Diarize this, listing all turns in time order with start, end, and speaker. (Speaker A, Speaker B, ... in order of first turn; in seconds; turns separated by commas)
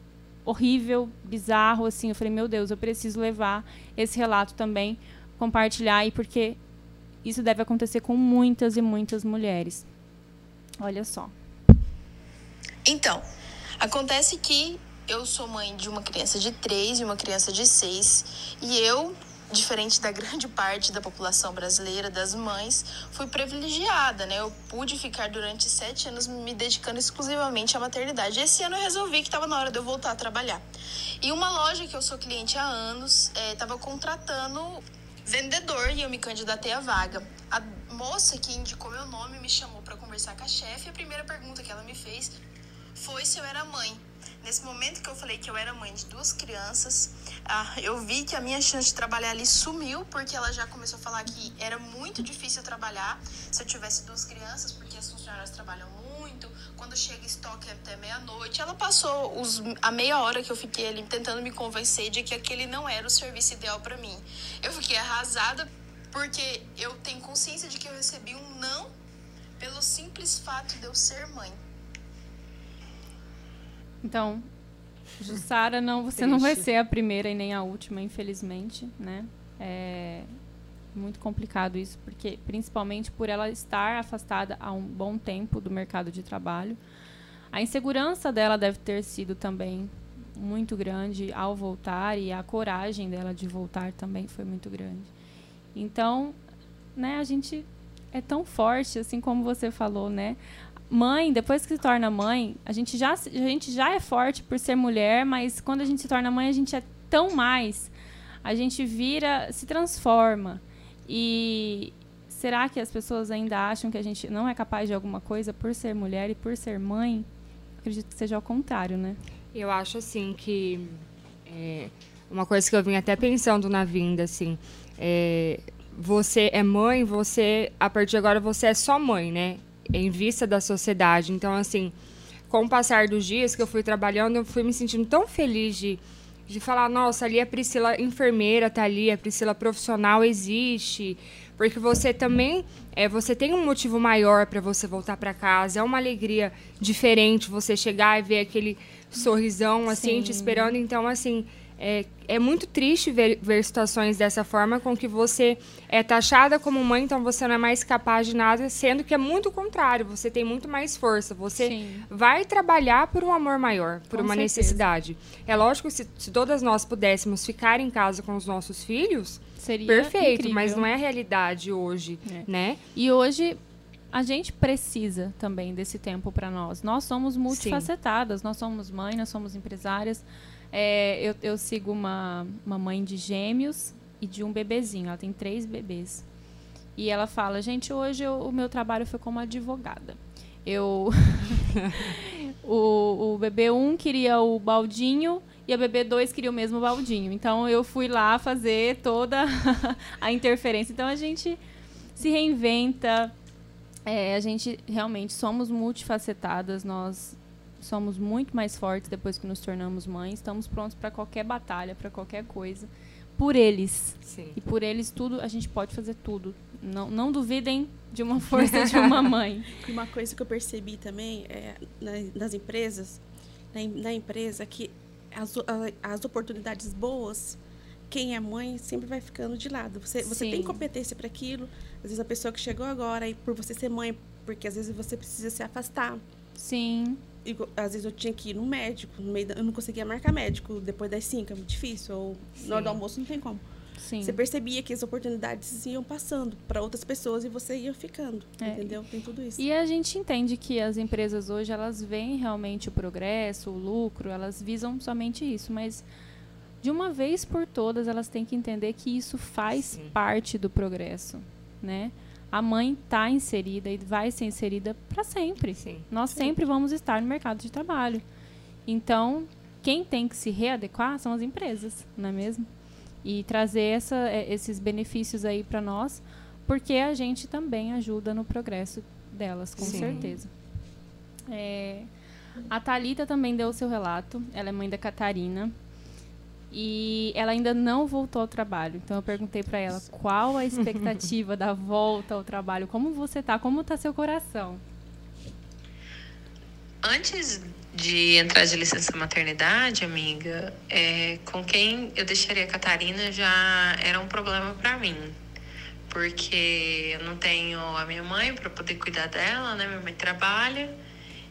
Speaker A: 0.4-6.6, Speaker A: 7.2-9.9, Speaker A: 10.8-11.3, Speaker B: 12.8-13.2, Speaker B: 13.8-30.6, Speaker B: 31.2-42.3, Speaker B: 42.9-68.9, Speaker B: 69.6-71.6, Speaker A: 74.0-74.5, Speaker A: 75.2-80.3, Speaker C: 76.2-76.6, Speaker A: 80.9-86.8, Speaker A: 87.5-95.1, Speaker A: 95.7-96.4, Speaker A: 97.0-100.4, Speaker A: 100.9-107.9, Speaker A: 108.4-117.3, Speaker A: 117.8-119.2, Speaker C: 119.5-131.9, Speaker C: 132.5-172.8, Speaker A: 149.9-150.8, Speaker A: 161.6-162.1, Speaker A: 164.1-164.8, Speaker A: 169.6-170.8, Speaker A: 172.2-173.6, Speaker A: 174.1-186.2, Speaker C: 177.5-177.9, Speaker A: 186.9-201.6, Speaker A: 202.1-203.3, Speaker A: 204.1-219.8, Speaker C: 214.2-214.6, Speaker C: 218.8-219.2, Speaker D: 219.8-223.2, Speaker D: 223.7-236.2, Speaker A: 230.2-230.8, Speaker A: 236.6-237.2, Speaker D: 237.4-243.6, Speaker C: 242.6-243.0, Speaker A: 244.0-244.4, Speaker D: 244.2-249.6, Speaker A: 248.6-249.0, Speaker A: 249.6-256.0, Speaker A: 256.8-268.2, Speaker C: 265.8-266.1, Speaker A: 268.9-272.7, Speaker A: 273.2-280.5, Speaker C: 279.8-280.3, Speaker D: 279.8-280.2, Speaker A: 281.5-282.1, Speaker A: 282.7-285.7, Speaker A: 286.7-294.8, Speaker E: 297.0-305.4, Speaker E: 306.1-310.9